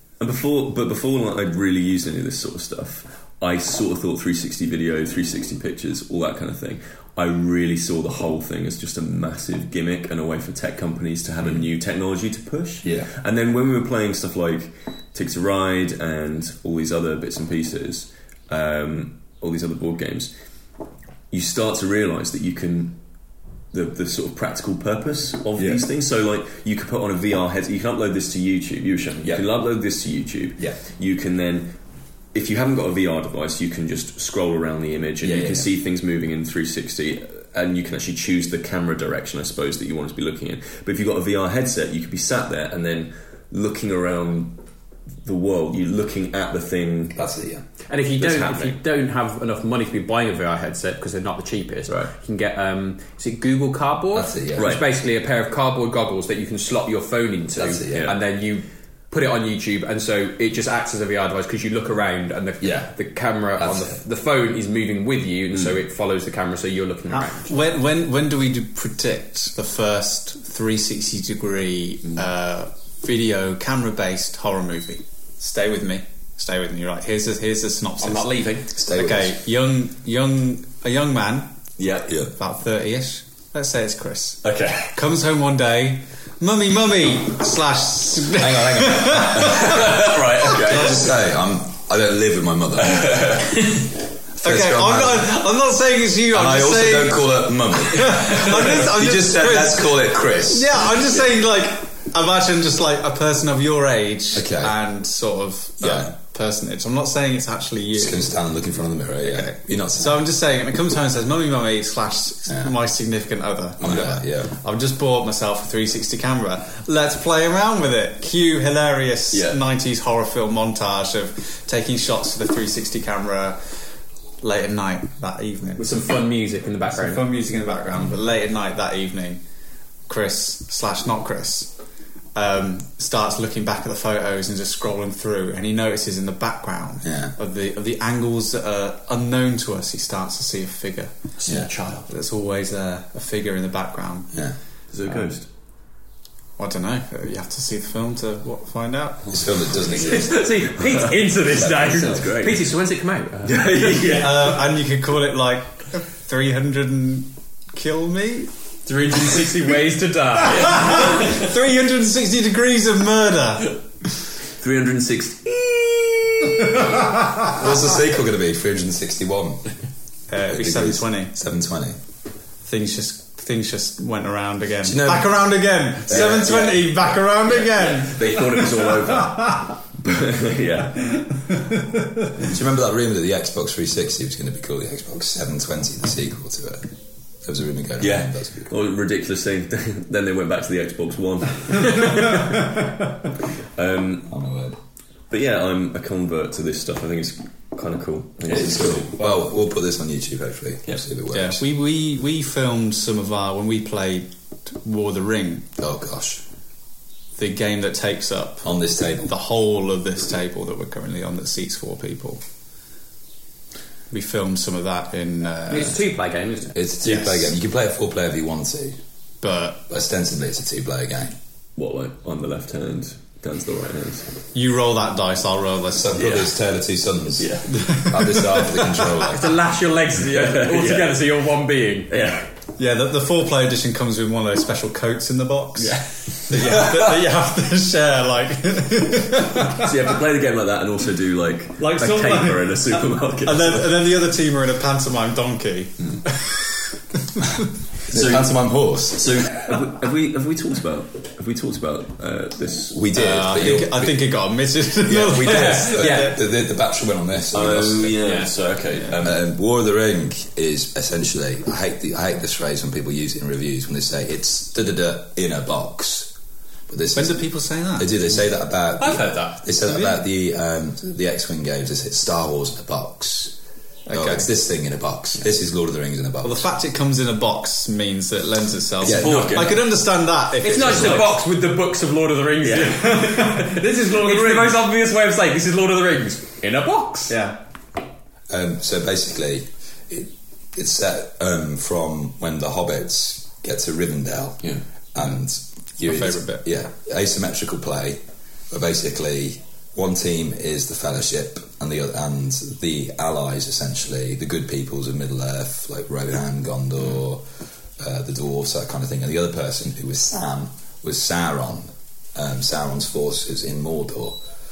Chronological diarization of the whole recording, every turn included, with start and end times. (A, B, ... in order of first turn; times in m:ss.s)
0:00.2-0:20.3 A
0:12.8-0:13.1 B
0:21.3-0:23.0 A
0:23.7-0:31.8 A
0:25.6-0:25.8 B
0:32.3-0:44.6 A
0:35.2-0:35.7 B
0:45.2-0:47.2 A
0:47.2-0:47.6 B
0:47.9-1:07.6 C
0:48.2-0:48.8 A
0:54.1-0:54.8 B
0:54.6-0:54.8 A
0:57.6-0:58.2 B
1:02.6-1:02.9 B
1:03.6-1:04.0 B
1:07.1-1:21.6 D
1:18.0-1:18.7 C
1:18.7-1:19.4 B
1:21.8-1:22.2 A
1:22.3-1:30.8 D
1:24.4-1:25.0 A
1:28.3-1:33.4 B
1:29.4-1:31.2 A
1:32.8-1:33.9 A
1:34.4-1:35.4 B
1:34.4-1:48.3 D
1:36.3-1:41.3 B
1:44.3-1:44.7 B
1:45.8-1:46.1 B
1:48.0-1:50.2 B
1:49.2-2:03.6 D
1:53.8-1:54.5 B
1:59.3-1:59.6 A
2:04.4-2:05.9 D
2:05.8-2:07.2 C
2:06.9-2:09.4 D
2:10.1-2:11.7 D
2:12.4-2:21.2 D
2:17.0-2:17.4 B
2:21.4-2:22.1 A
2:22.1-2:24.4 D
2:24.9-2:25.5 A
2:26.6-2:29.3 D
2:29.3-2:30.5 B
2:29.9-2:34.0 C
2:30.2-2:32.7 A
2:33.4-2:34.7 A
2:34.1-2:38.5 D
2:38.9-2:41.3 C
2:40.6-2:44.3 D
2:44.5-2:47.0 A
2:47.4-2:49.7 B
2:50.3-2:51.3 D
2:50.5-2:52.0 B
2:52.6-2:59.1 D
2:54.8-2:56.7 B
2:56.1-3:01.5 A
3:02.4-3:06.9 B
3:07.4-3:08.7 B
3:08.0-3:13.1 A
3:13.8-3:14.3 A
3:14.2-3:14.8 B
3:15.3-3:19.5 A
3:18.5-3:21.6 B
3:21.3-3:25.7 D
3:25.8-3:26.4 B
3:27.4-3:32.4 D
3:28.6-3:29.3 B
3:34.1-3:36.0 D
3:35.7-3:36.8 C
3:36.7-3:39.0 B
3:37.0-3:37.5 D
3:39.4-3:39.8 D
3:39.9-3:41.4 B
3:41.8-3:44.3 A
3:44.5-3:46.2 D
3:45.9-3:49.6 B
3:46.2-3:46.5 A
3:47.4-3:47.9 A
3:47.8-3:48.6 D
3:49.1-3:52.4 C
3:50.2-3:51.2 A
3:52.1-3:52.5 A
3:52.8-3:59.9 D
3:55.8-3:56.8 A
3:59.7-4:04.0 A
4:01.8-4:07.4 D
4:08.1-4:08.5 A
4:08.1-4:09.8 B
4:09.1-4:13.0 A
4:12.9-4:14.2 B
4:13.1-4:16.4 D
4:15.0-4:18.3 B
4:15.7-4:16.3 C
4:17.5-4:19.4 A
4:18.2-4:18.5 C
4:18.3-4:19.2 D
4:19.2-4:26.3 B
4:26.9-4:27.4 B
4:27.1-4:28.2 D
4:28.0-4:33.6 B
4:29.2-4:29.5 A
4:29.8-4:30.2 D
4:34.1-4:34.5 D
4:34.1-4:36.7 B
4:36.4-4:41.4 D
4:39.0-4:39.8 B
4:39.0-4:39.8 A
4:40.6-4:47.4 C
4:40.8-4:41.2 B
4:42.6-4:43.0 A
4:42.8-4:44.8 D
4:47.3-4:47.6 D
4:48.5-5:07.4 B
4:56.1-4:56.6 D
5:08.0-5:14.4 B